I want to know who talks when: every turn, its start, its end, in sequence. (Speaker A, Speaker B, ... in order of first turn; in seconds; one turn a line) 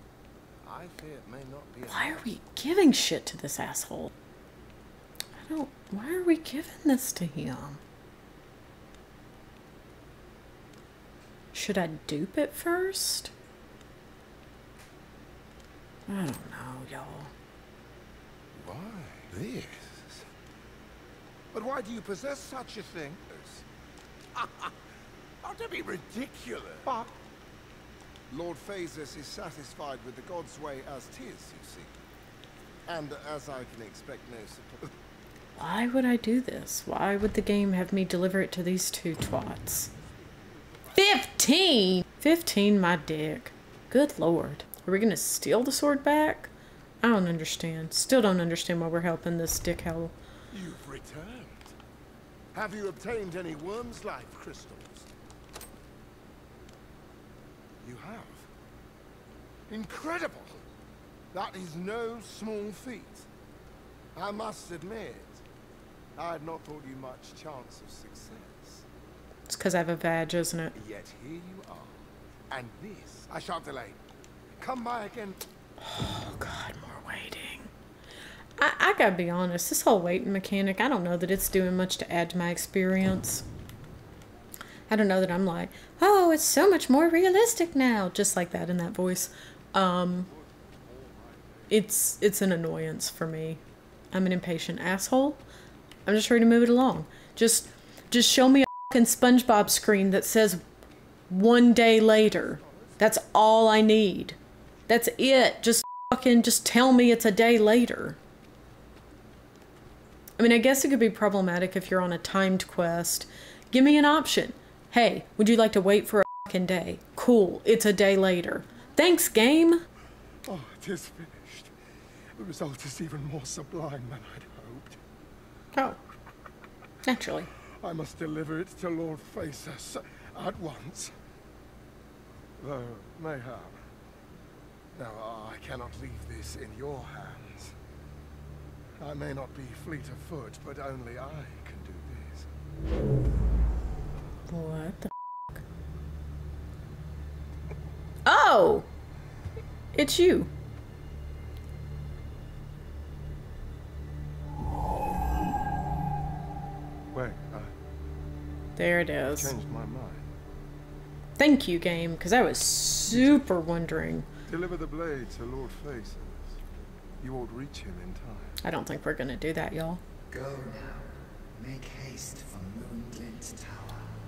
Speaker A: 0.6-2.3
Speaker B: 1.9-4.1
Speaker B: 5.4-7.8
Speaker B: 11.5-13.3
Speaker B: 16.1-17.3
Speaker A: 18.5-20.2
Speaker A: 21.5-23.6
Speaker A: 24.4-24.7
Speaker A: 25.4-27.1
Speaker A: 28.3-31.9
Speaker A: 32.9-34.9
Speaker B: 35.6-39.9
Speaker B: 41.0-46.5
Speaker B: 47.0-50.1
Speaker A: 50.5-51.7
Speaker A: 52.5-55.1
Speaker A: 57.8-58.5
Speaker A: 59.7-60.6
Speaker A: 61.3-63.3
Speaker A: 64.2-65.4
Speaker A: 66.2-68.8
Speaker B: 69.5-70.7
Speaker A: 70.8-72.0
Speaker A: 72.5-74.0
Speaker A: 74.6-75.4
Speaker B: 75.8-77.7
Speaker B: 78.6-83.5
Speaker B: 84.9-90.3
Speaker B: 91.7-93.6
Speaker B: 94.1-95.4
Speaker B: 96.1-100.6
Speaker B: 101.3-104.4
Speaker B: 104.9-108.2
Speaker B: 110.4-119.8
Speaker A: 120.5-121.7
Speaker A: 122.4-125.0
Speaker B: 125.7-126.0
Speaker B: 127.0-127.5
Speaker A: 127.8-131.1
Speaker A: 132.6-133.8
Speaker A: 134.9-137.8
Speaker A: 139.0-142.5
Speaker B: 144.5-145.6
Speaker B: 148.3-148.9
Speaker B: 149.9-150.5
Speaker A: 157.1-157.7
Speaker B: 158.8-159.6
Speaker A: 159.4-160.3
Speaker B: 161.4-164.3
Speaker A: 163.1-163.4
Speaker A: 164.5-166.5
Speaker A: 167.2-168.6
Speaker B: 168.6-170.0
Speaker C: 170.3-173.9